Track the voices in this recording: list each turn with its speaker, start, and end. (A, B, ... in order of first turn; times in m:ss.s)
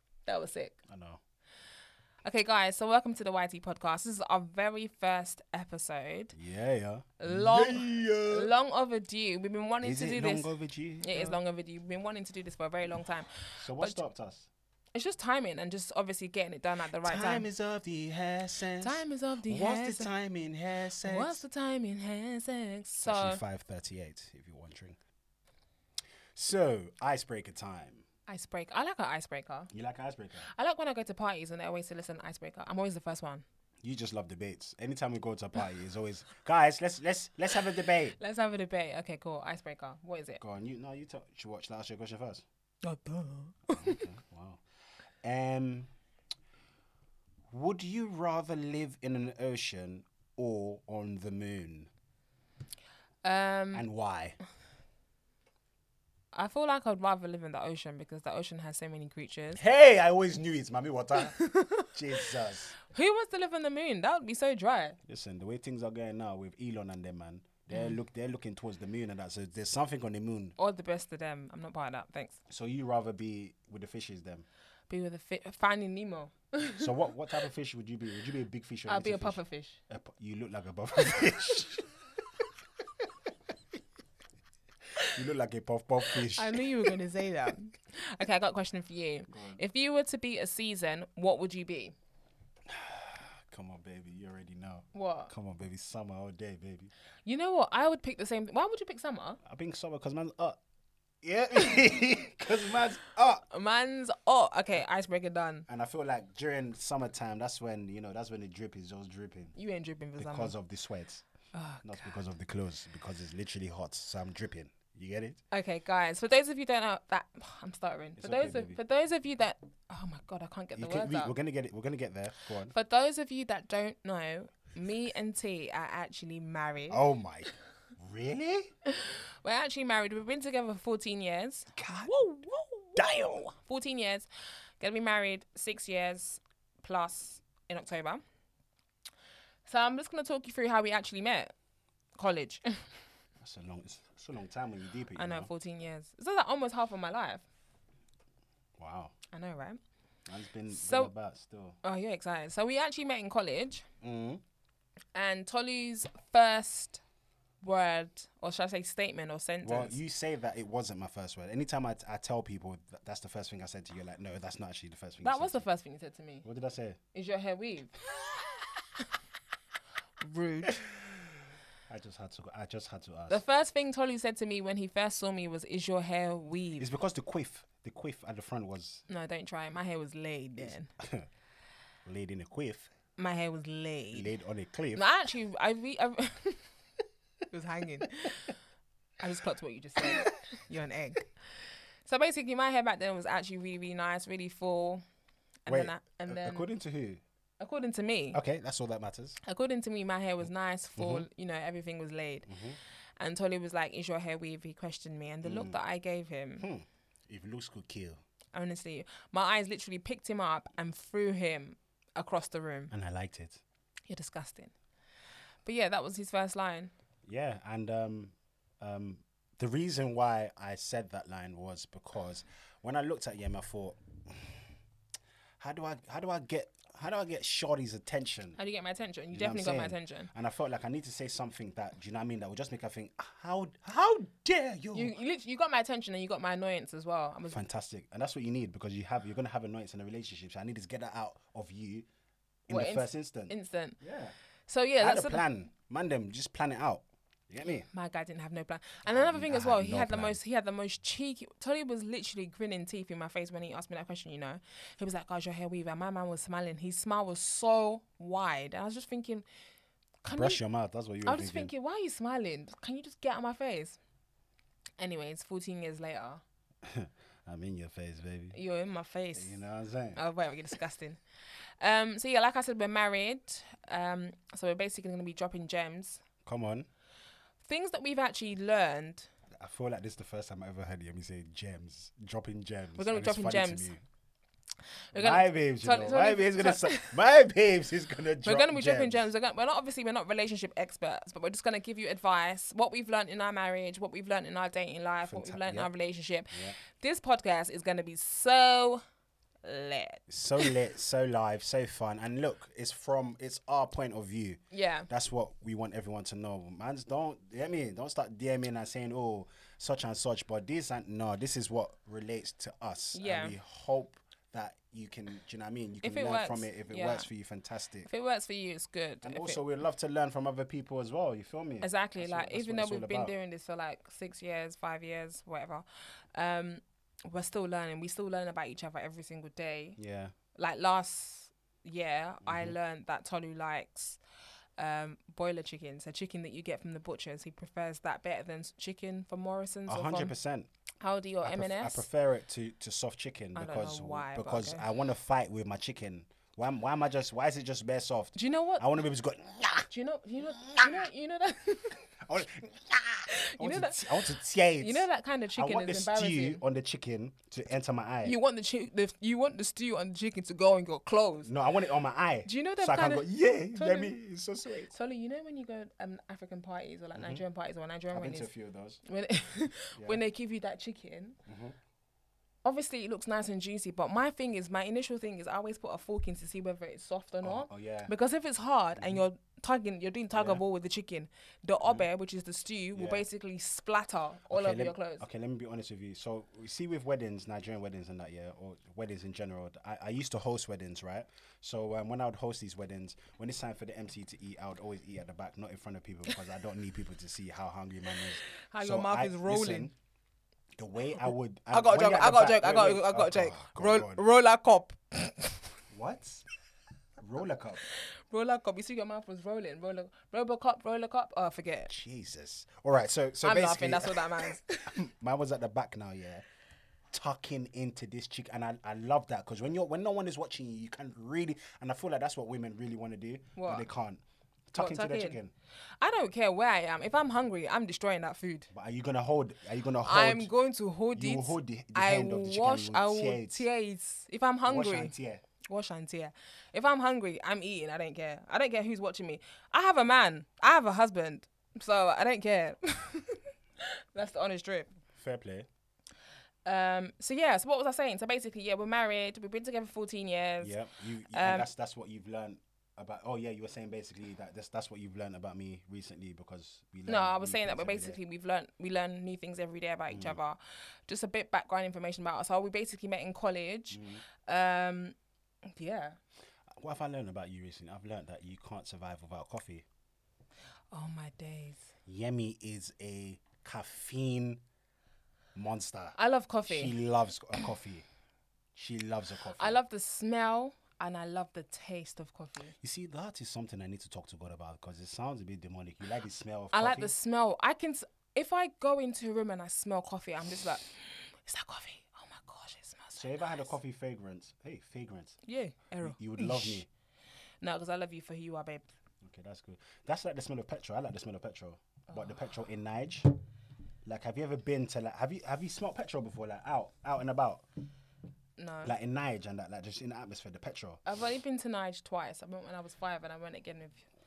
0:00.2-0:00.8 A
0:00.9-0:01.2 B
0:02.2-0:06.3 A
0:06.3-0:08.5 B
0:07.2-0:14.0 A
0:09.8-0:11.4 B
0:13.6-0:14.5 B
0:14.9-0:17.4 A
0:17.0-0:21.4 B
0:18.8-0:20.1 A
0:21.0-0:23.4 A
0:23.0-0:25.0 B
0:26.3-0:28.0 B
0:28.3-0:29.7 A
0:29.7-0:30.5 B
0:30.4-0:33.4 A
0:33.8-0:38.2 B
0:38.2-0:40.4 A
0:40.4-0:42.4 B
0:42.8-0:44.0 A
0:43.7-0:44.6 B
0:45.2-0:45.9 B
0:47.5-0:51.9 B
0:53.2-0:53.8 A
0:53.7-0:54.4 B
0:56.3-0:59.6 A
0:59.5-1:01.4 B
1:01.2-1:02.3 A
1:01.9-1:02.7 B
1:02.8-1:05.0 A
1:05.0-1:10.6 B
1:07.7-1:08.0 A
1:10.6-1:12.4 A
1:12.5-1:14.4 B
1:14.9-1:16.9 A
1:16.7-1:21.9 B
1:18.9-1:19.8 A
1:25.0-1:27.0 B
1:26.1-1:31.9 A
1:29.3-1:29.6 B
1:32.7-1:36.9 B
1:34.9-1:35.3 A
1:37.2-1:39.4 A
1:39.4-1:40.6 B
1:41.2-1:43.4 B
1:43.5-1:45.7 A
1:45.7-1:49.5 B
1:49.5-1:50.6 A
1:50.2-1:51.2 B
1:51.5-1:52.1 A
1:51.8-1:55.4 B
1:55.5-2:01.3 A
1:58.2-1:58.8 B
2:00.8-2:02.7 B
2:02.7-2:07.0 A
2:06.9-2:08.7 B
2:08.8-2:14.3 A
2:11.7-2:12.1 B
2:13.0-2:13.5 B
2:14.8-2:18.2 A
2:19.6-2:21.5 A
2:22.2-2:22.9 A
2:23.4-2:25.5 B
2:25.2-2:27.4 A
2:28.8-2:29.1 B
2:29.3-2:29.8 A
2:30.3-2:31.8 B
2:30.7-2:31.1 A
2:31.8-2:33.8 A
2:34.0-2:34.4 B
2:35.1-2:37.0 A
2:37.6-2:40.0 A
2:39.6-2:45.6 B
2:45.2-2:46.4 A
2:46.4-2:47.0 B
2:47.1-2:48.0 A
2:50.2-2:51.0 A
2:51.9-2:53.4 B
2:53.3-2:56.9 A
2:56.8-2:59.0 B
2:59.1-3:00.9 A
3:00.6-3:01.3 B
3:02.0-3:02.9 B
3:03.2-3:04.3 A
3:04.1-3:05.0 B
3:04.9-3:06.7 A
3:07.5-3:08.6 A
3:09.2-3:11.3 A
3:12.0-3:15.0 A
3:15.6-3:16.7 A
3:15.7-3:17.2 B
3:17.6-3:18.4 A
3:18.3-3:19.4 B
3:19.4-3:22.6 A
3:21.0-3:21.2 B
3:22.5-3:22.8 B
3:23.2-3:26.7 A
3:25.4-3:25.8 B
3:26.6-3:28.2 B
3:28.5-3:32.9 A
3:32.9-3:33.6 B
3:34.1-3:34.7 A
3:35.6-3:36.9 A
3:37.2-3:44.6 B
3:45.6-3:48.6 B
3:48.6-3:50.3 A
3:49.3-3:55.1 B
3:54.9-3:57.6 A
3:57.5-4:02.1 B
4:02.7-4:04.3 B
4:02.7-4:04.0 A
4:04.7-4:05.4 A
4:05.0-4:07.9 B
4:07.9-4:19.4 A
4:09.1-4:10.4 B
4:20.2-4:20.6 A
4:20.3-4:21.7 B
4:21.2-4:24.0 A
4:25.0-4:26.4 A
4:26.8-4:28.6 B
4:28.5-4:29.6 A
4:29.3-4:30.2 B
4:30.1-4:31.2 A
4:31.8-4:36.2 A
4:36.4-4:36.9 B
4:37.6-4:39.3 A
4:39.6-4:44.0 B
4:43.0-4:43.9 A
4:45.1-4:47.1 A
4:45.1-4:49.2 B
4:48.4-4:59.0 A
4:55.2-4:55.9 B
4:56.5-4:56.8 B
4:59.6-5:00.7 A
5:00.3-5:18.1 B
5:04.7-5:05.1 A
5:13.1-5:13.6 A
5:16.0-5:17.3 A
5:18.0-5:19.6 A
5:19.2-5:23.3 B
5:21.8-5:30.0 A
5:30.0-5:30.3 B
5:30.5-5:34.2 A
5:32.4-5:32.8 B
5:34.8-5:40.3 A
5:39.9-5:40.7 B
5:41.0-5:42.0 A
5:41.4-5:49.9 B
5:43.5-5:44.8 A
5:48.4-5:48.9 A
5:49.9-5:52.1 A
5:50.5-5:51.1 B
5:52.2-5:58.4 B
5:53.2-5:54.3 A
5:54.8-5:56.6 A
5:58.2-6:01.5 A
6:01.4-6:04.9 B
6:02.4-6:04.1 A
6:04.9-6:08.5 A
6:07.1-6:07.4 B
6:08.1-6:09.0 B
6:09.0-6:11.4 A
6:09.9-6:10.2 B
6:11.4-6:11.8 B
6:12.6-6:25.2 A
6:17.4-6:18.1 B
6:19.0-6:19.2 B
6:20.3-6:20.6 B
6:22.9-6:23.3 B
6:24.5-6:39.9 B
6:38.4-6:39.9 A
6:40.8-6:44.2 B
6:41.2-6:45.7 A
6:45.9-6:46.4 B
6:47.2-6:47.9 B
6:47.9-6:51.9 A
6:51.9-6:56.4 B
6:53.4-6:55.0 A
6:57.1-7:05.5 B
7:03.6-7:03.9 A
7:04.8-7:05.4 A
7:06.0-7:08.7 A
7:08.7-7:10.5 B
7:10.0-7:15.1 A
7:11.1-7:13.6 B
7:14.6-7:15.4 B
7:15.7-7:24.9 A
7:25.1-7:25.7 B
7:26.6-7:30.7 A
7:30.6-7:38.2 B
7:31.3-7:31.7 A
7:37.0-7:46.2 A
7:40.1-7:40.4 B
7:43.9-7:44.2 B
7:46.7-7:49.8 B
7:50.9-7:51.9 A
7:52.0-7:54.6 B
7:55.5-7:58.0 B
7:56.2-7:57.0 A
7:58.7-7:59.8 B
7:59.6-8:02.7 A
8:02.8-8:07.1 B
8:06.7-8:13.5 A
8:13.1-8:15.4 B
8:15.4-8:16.8 A
8:16.0-8:16.9 B
8:17.6-8:18.9 A
8:19.2-8:23.4 B
8:24.0-8:27.6 B
8:28.6-8:28.9 A
8:28.8-8:31.0 B
8:31.0-8:34.0 A